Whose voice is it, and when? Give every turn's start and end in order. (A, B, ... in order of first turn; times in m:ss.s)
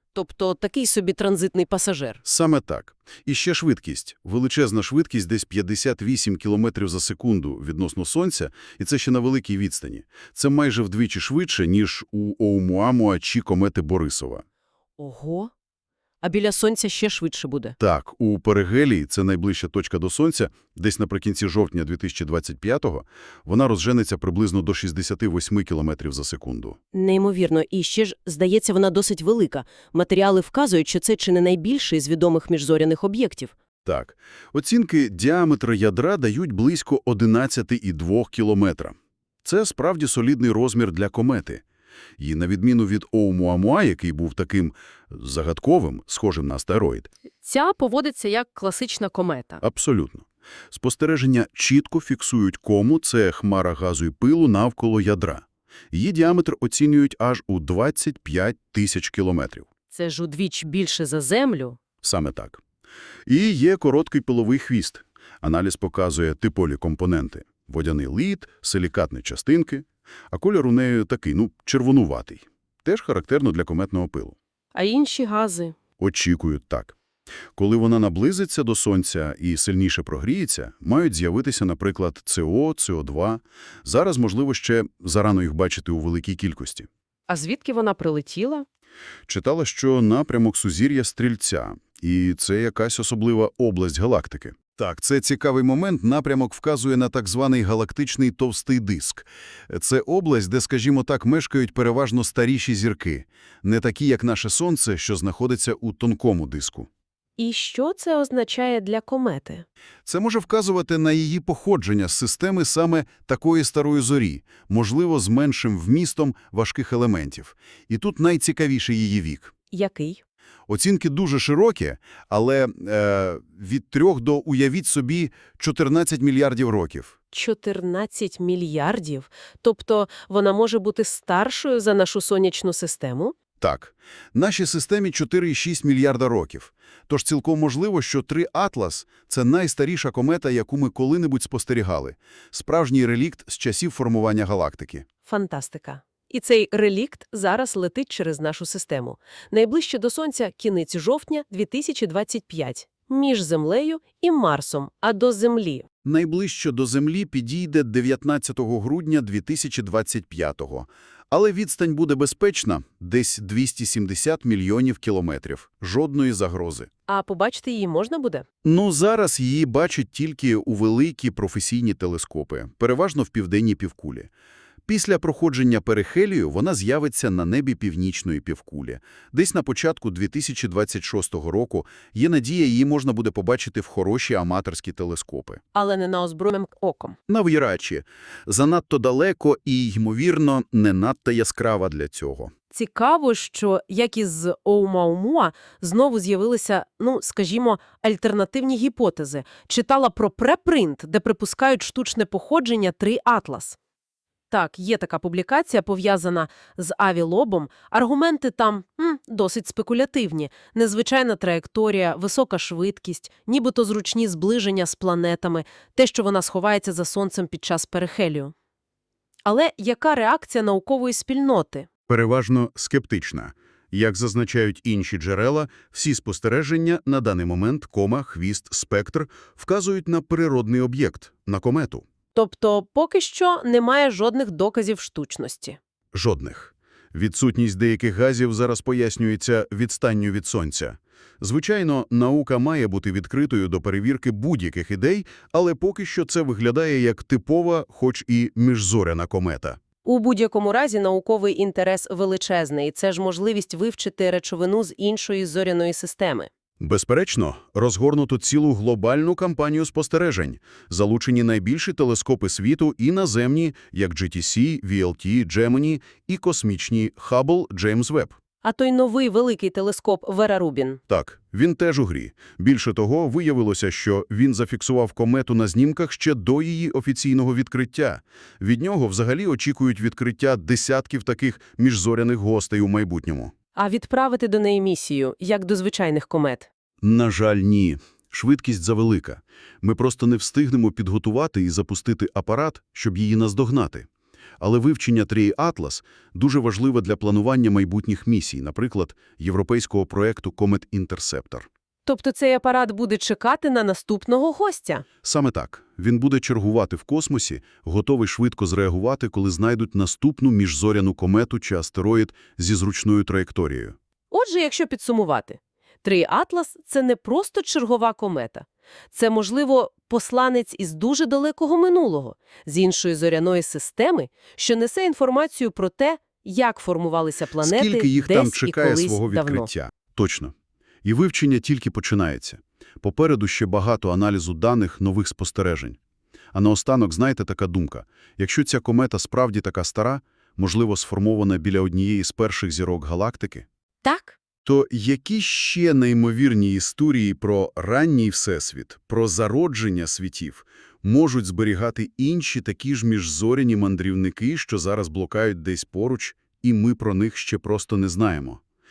0:00.2-0:02.2 A
0:02.2-0:14.4 B
0:15.0-0:15.5 A
0:16.2-0:17.8 A
0:17.8-0:26.8 B
0:26.9-0:33.5 A
0:33.8-0:41.6 B
0:42.2-0:47.1 B
0:47.4-0:49.6 A
0:49.6-0:59.7 B
0:59.9-1:01.8 A
1:02.0-1:02.6 B
1:03.3-1:14.4 B
1:14.8-1:15.8 A
1:16.0-1:17.0 B
1:17.6-1:26.9 B
1:27.3-1:28.7 A
1:29.3-1:46.9 B
1:47.4-1:49.6 A
1:50.1-1:59.5 B
1:59.7-2:00.2 A
2:00.7-2:07.1 B
2:07.3-2:13.4 A
2:13.6-2:25.1 B
2:25.3-2:35.9 A
2:36.0-2:46.9 B
2:47.1-2:48.5 A
2:48.6-2:54.3 B
2:54.9-3:05.6 B
3:05.8-3:07.2 A
3:07.3-3:12.5 B
3:12.7-3:23.8 A
3:24.5-3:38.5 A
3:39.4-3:41.9 A
3:42.1-3:52.0 B
3:52.4-3:55.8 A
3:56.1-4:09.8 B
4:10.0-4:16.5 A
4:16.8-4:28.4 B
4:28.6-4:31.0 A
4:31.1-4:43.5 B
4:43.8-4:46.7 A
4:47.0-4:54.1 B
4:54.6-5:01.7 B
5:02.1-5:05.1 A
5:05.2-5:14.0 B
5:14.3-5:29.7 A
5:27.6-5:30.5 B
5:31.0-5:36.0 B
5:36.5-5:43.7 B
5:44.0-5:44.4 A
5:44.6-5:58.6 B